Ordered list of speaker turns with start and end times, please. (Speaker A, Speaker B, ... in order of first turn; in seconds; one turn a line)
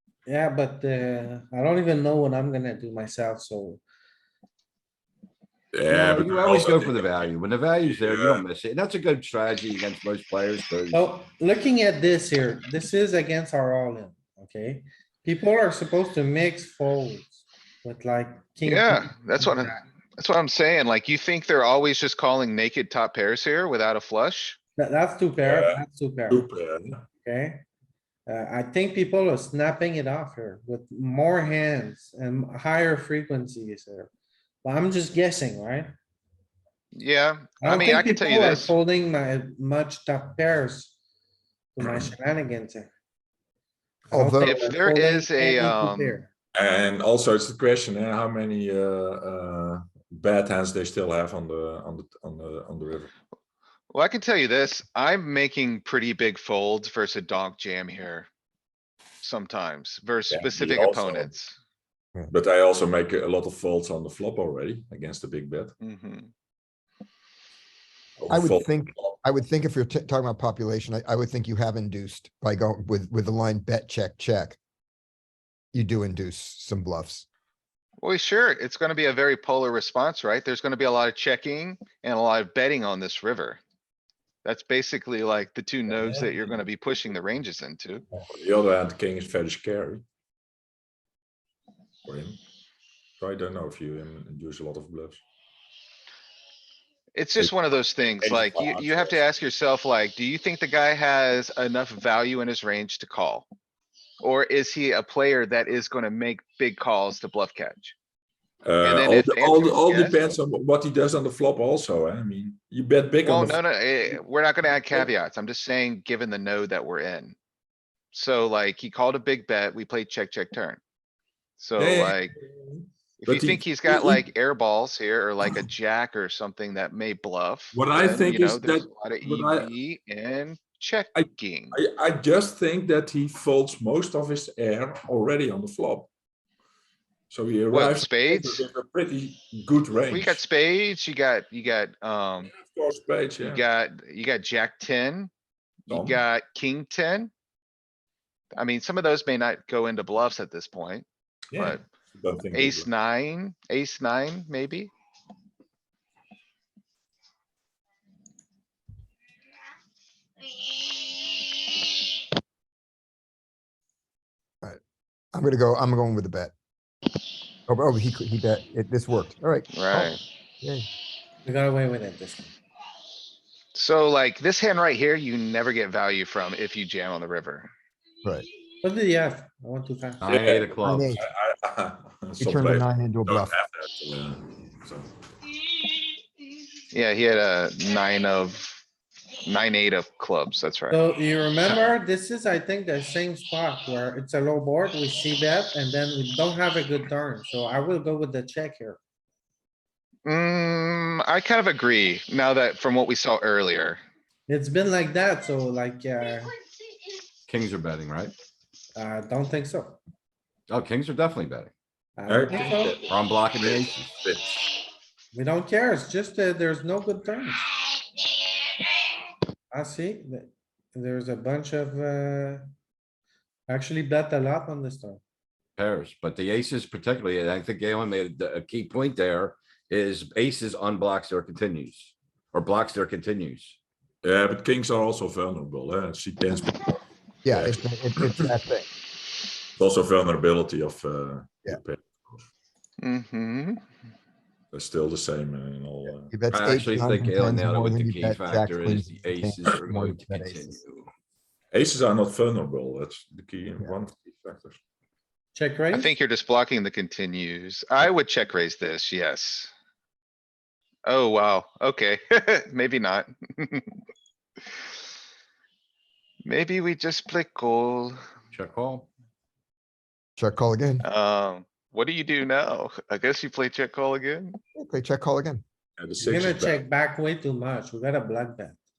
Speaker A: 0.2-3.8
Speaker B: 5.7-8.4
Speaker C: 5.9-11.1
Speaker A: 10.9-19.8
Speaker D: 18.6-24.6
Speaker A: 24.8-26.5
Speaker B: 25.4-27.0
Speaker A: 27.2-27.6
Speaker A: 28.3-34.1
Speaker A: 34.6-35.9
Speaker D: 37.0-38.8
Speaker A: 37.6-41.0
Speaker A: 41.8-42.9
Speaker B: 41.8-42.1
Speaker E: 44.1-44.7
Speaker A: 44.1-46.3
Speaker D: 44.4-46.2
Speaker B: 46.5-53.1
Speaker D: 53.9-58.3
Speaker D: 59.2-61.6
Speaker B: 60.3-61.3
Speaker B: 62.3-65.7
Speaker D: 65.8-66.3
Speaker B: 68.2-69.2
Speaker E: 68.3-74.6
Speaker E: 75.7-77.2
Speaker D: 78.0-83.6
Speaker D: 84.5-88.0
Speaker B: 88.1-90.0
Speaker B: 92.1-92.4
Speaker B: 93.2-95.2
Speaker D: 97.2-103.5
Speaker B: 98.1-99.2
Speaker D: 104.2-108.0
Speaker B: 108.6-113.6
Speaker D: 108.8-110.2
Speaker D: 113.2-117.4
Speaker D: 118.1-120.8
Speaker D: 121.6-122.3
Speaker B: 121.8-124.3
Speaker D: 123.2-131.8
Speaker B: 127.7-129.7
Speaker B: 131.2-136.1
Speaker B: 137.3-140.4
Speaker D: 137.7-138.7
Speaker D: 140.1-142.5
Speaker B: 142.5-143.6
Speaker D: 143.4-145.3
Speaker D: 145.9-147.3
Speaker B: 145.9-146.2
Speaker D: 148.5-151.8
Speaker B: 151.5-152.9
Speaker D: 152.5-154.9
Speaker E: 165.3-166.5
Speaker E: 167.7-170.9
Speaker D: 169.7-170.2
Speaker A: 171.4-172.5
Speaker D: 173.8-177.7
Speaker A: 178.8-180.2
Speaker C: 180.2-181.2
Speaker B: 180.2-185.1
Speaker E: 180.8-181.2
Speaker E: 182.4-183.5
Speaker D: 186.9-188.8
Speaker D: 189.4-191.0
Speaker A: 190.9-199.0
Speaker D: 200.2-204.0
Speaker A: 204.5-206.5
Speaker C: 207.5-208.3
Speaker A: 208.9-210.0
Speaker C: 210.7-211.7
Speaker A: 212.2-213.0
Speaker B: 212.3-214.6
Speaker C: 213.1-214.2
Speaker A: 215.3-217.7
Speaker A: 219.7-222.7
Speaker A: 223.7-225.2
Speaker C: 225.8-233.8
Speaker B: 234.2-238.5
Speaker E: 237.4-238.9
Speaker B: 239.8-242.5
Speaker D: 243.0-243.8
Speaker B: 244.7-246.3
Speaker E: 246.3-250.8
Speaker C: 246.5-251.1
Speaker B: 251.7-254.8
Speaker A: 255.6-256.1
Speaker D: 255.9-259.7
Speaker D: 261.1-263.9
Speaker D: 266.4-268.2
Speaker C: 268.5-269.1
Speaker E: 270.4-271.1
Speaker D: 271.0-274.6
Speaker E: 274.7-275.6
Speaker B: 276.0-276.8
Speaker A: 276.2-278.8